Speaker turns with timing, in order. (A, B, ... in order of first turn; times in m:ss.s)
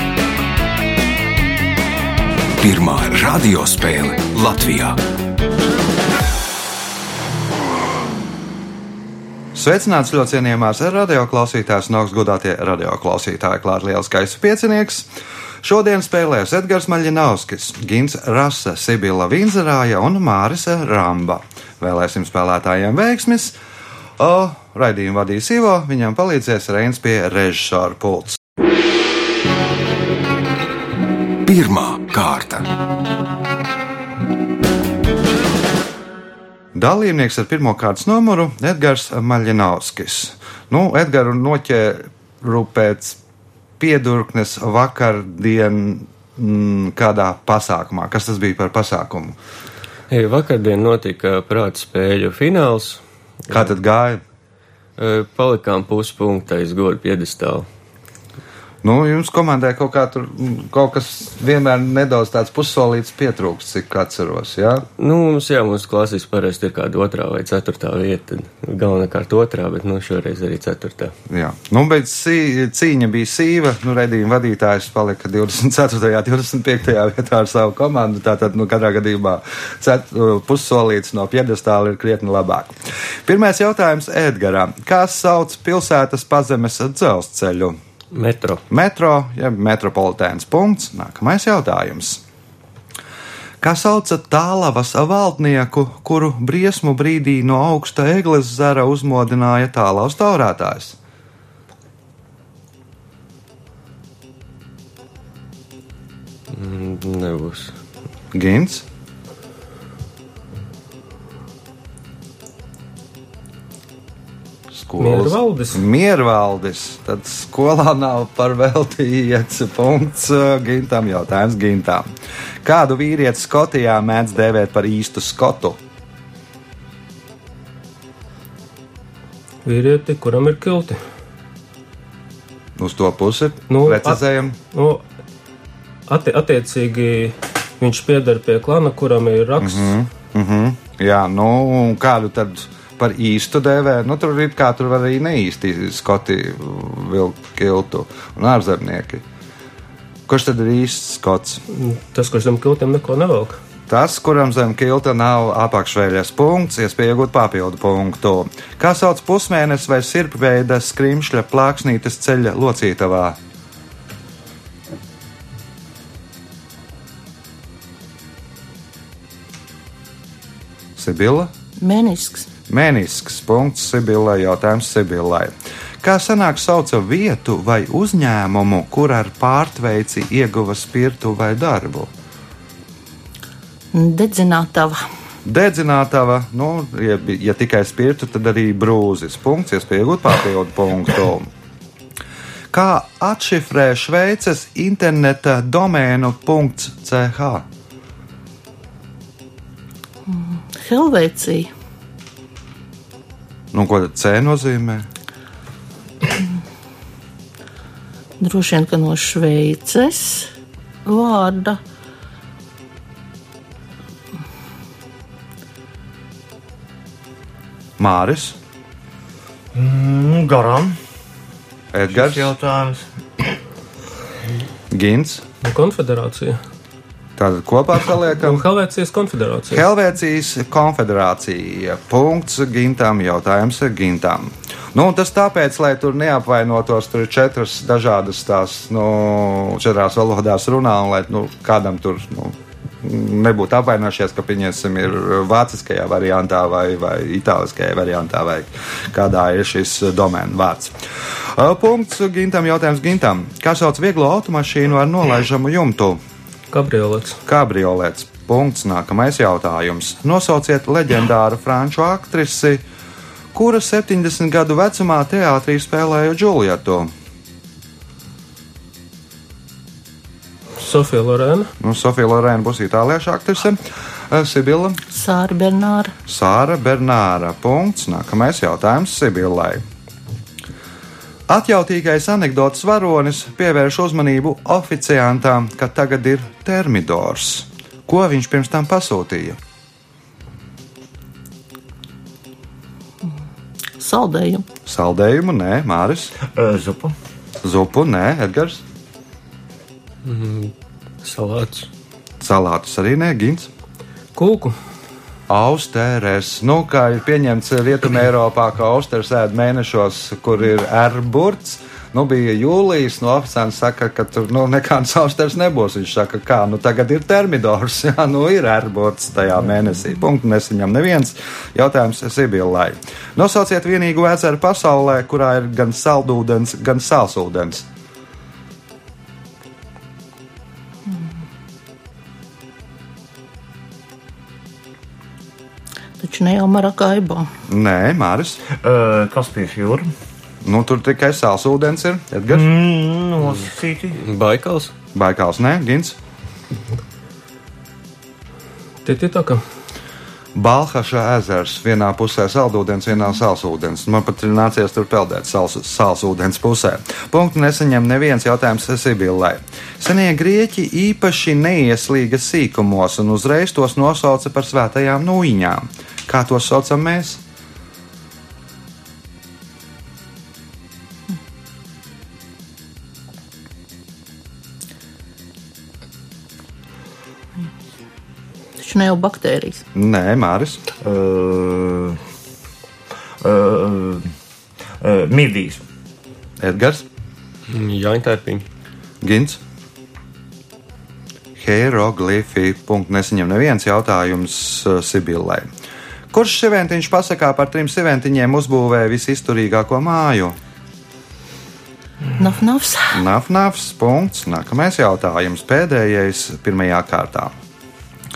0:02.6-0:05.0 A
0:09.5-0:15.1 B
0:15.6-0:23.5 B
0:24.2-0:28.4 B
0:31.4-0:32.7 A
0:36.7-0:43.2 B
0:43.8-0:49.4 B
0:50.1-0:53.7 C
0:53.5-0:54.2 B
0:55.0-0:57.7 C
0:58.8-1:04.9 B
1:05.0-1:11.1 C
1:11.3-1:22.7 B
1:23.2-1:27.8 B
1:28.1-1:28.6 C
1:28.7-1:32.2 B
1:33.6-1:41.0 B
1:46.5-1:47.7 C
1:48.3-1:48.8 B
1:54.7-2:02.1 B
1:55.0-1:55.8 D
2:02.6-2:05.8 B
2:09.6-2:11.0 D
2:12.8-2:14.6 B
2:13.7-2:15.0 D
2:16.1-2:19.9 D
2:19.6-2:29.2 B
2:30.3-2:31.6 B
2:31.7-2:33.6 D
2:33.9-2:43.4 B
2:51.0-2:51.5 B
2:51.8-2:52.5 E
2:52.7-3:02.1 B
3:03.9-3:05.0 E
3:05.4-3:11.5 B
3:12.7-3:17.6 B
3:20.3-3:21.7 E
3:23.7-3:25.1 B
3:28.4-3:30.5 E
3:31.0-3:31.8 E
3:38.0-3:38.6 B
3:39.7-3:41.0 F
3:41.9-3:42.5 B
3:42.1-3:43.5 F
3:44.9-3:45.4 B
3:45.6-3:46.6 D
3:47.4-3:48.7 B
3:48.4-3:49.8 D
3:49.7-4:16.2 B
4:16.7-4:17.4 D
4:17.4-4:22.8 B
4:23.5-4:27.1 B
4:30.8-4:31.7 D
4:31.8-4:35.0 B
4:35.1-4:36.1 E
4:36.3-4:39.8 B
4:41.5-4:49.6 B
4:54.0-4:54.6 E
4:54.8-4:56.3 B
4:56.5-4:57.1 F
4:57.6-4:58.8 B
5:00.2-5:01.9 C
5:02.4-5:03.7 B
5:04.3-5:04.8 D
5:05.5-5:27.8 B
5:36.2-5:37.5 E
5:37.7-5:38.6 B
5:38.7-5:40.1 F
5:40.6-5:42.7 B
5:42.5-5:44.2 F
5:44.2-5:44.9 C
5:45.1-5:46.2 B
5:49.0-5:49.6 D
5:50.5-6:07.4 B
6:18.8-6:19.8 E
6:19.9-6:20.8 B
6:21.0-6:22.2 F
6:23.4-6:24.3 F
6:25.0-6:25.8 F
6:26.6-6:27.0 B
6:27.7-6:28.6 C
6:29.2-6:29.6 B
6:31.6-6:35.7 B
6:36.3-6:40.6 B
6:42.4-6:43.2 E
6:43.1-6:47.5 B